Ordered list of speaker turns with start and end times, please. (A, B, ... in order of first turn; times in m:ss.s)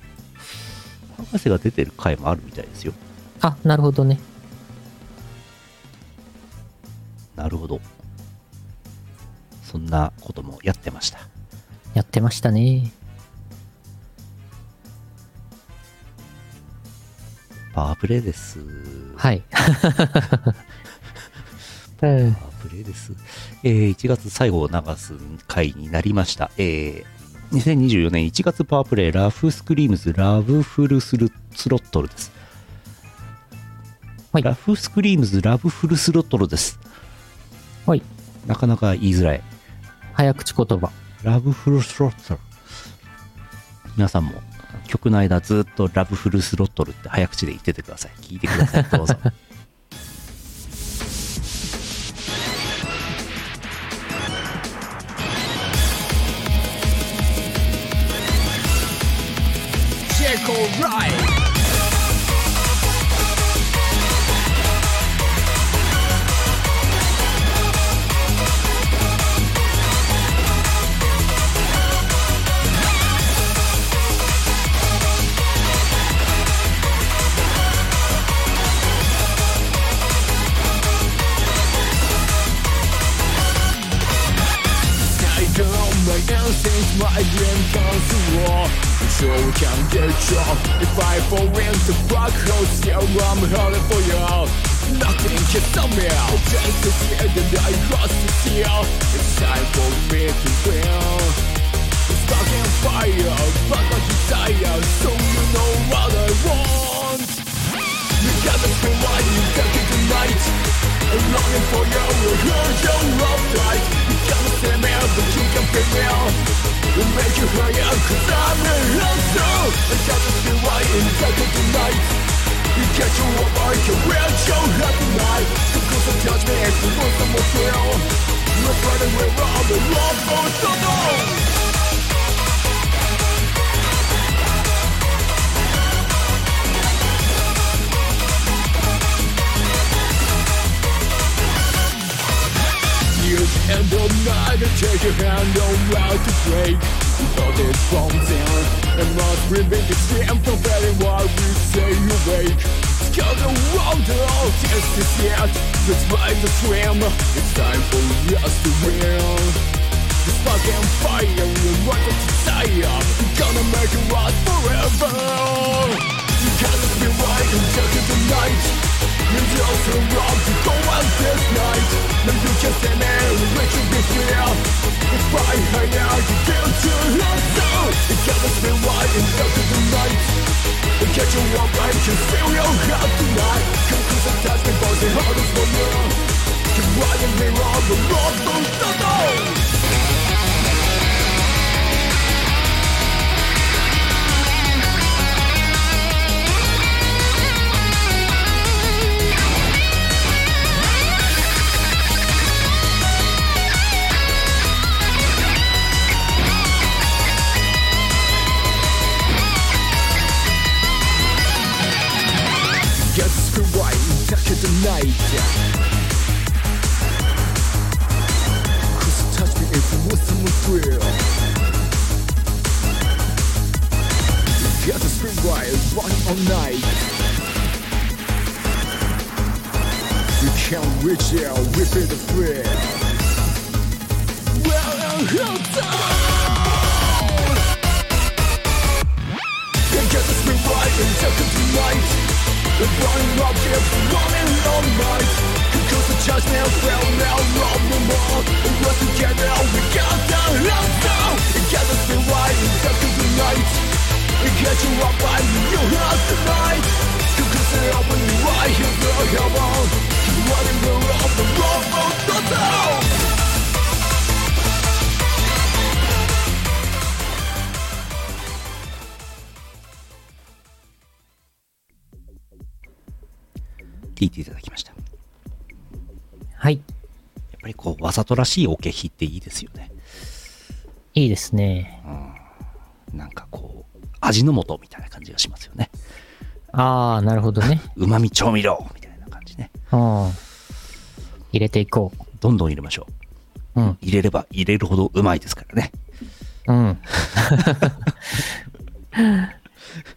0:01.1-0:03.0 A
0:03.4-0:04.2 B
0:07.4-0:07.8 A
0:09.6-0:11.3 A
0:11.9-0:12.9 B
0:17.7-0:19.2 A
0:19.2-0:20.5 B
0:22.0-0:22.4 B
0:22.2-0:32.3 A
0:34.4-0:36.8 A
0:38.4-0:39.4 A
0:40.2-0:40.9 B
0:41.2-0:42.4 A
0:44.0-0:49.3 A
0:48.8-0:49.1 B
1:00.1-1:01.4 C
1:25.0-1:41.4 C
1:42.1-1:47.4 C
1:48.2-1:50.6 C
1:51.1-1:56.4 C
1:56.9-2:02.2 C
2:02.7-2:11.5 C
2:23.1-2:39.6 C
2:40.2-3:00.4 C
3:01.0-3:06.2 C
3:06.7-3:09.7 C
3:33.0-3:35.6 C
3:38.9-3:41.2 C
3:44.6-3:47.1 C
3:50.3-3:53.1 C
3:54.5-3:57.6 C
3:59.9-4:13.9 C
4:14.4-4:23.3 C
4:34.2-4:34.9 A
4:36.6-4:36.8 B
4:37.6-4:39.9 A
4:41.1-4:42.0 B
4:42.0-4:42.4 A
4:43.1-4:45.9 A
4:46.7-4:47.9 B
4:47.9-4:49.7 A
4:49.9-4:50.4 B
4:51.5-4:52.2 B
4:52.4-4:53.1 A
4:53.9-4:55.9 A
4:56.7-4:58.0 B
4:59.2-4:59.5 B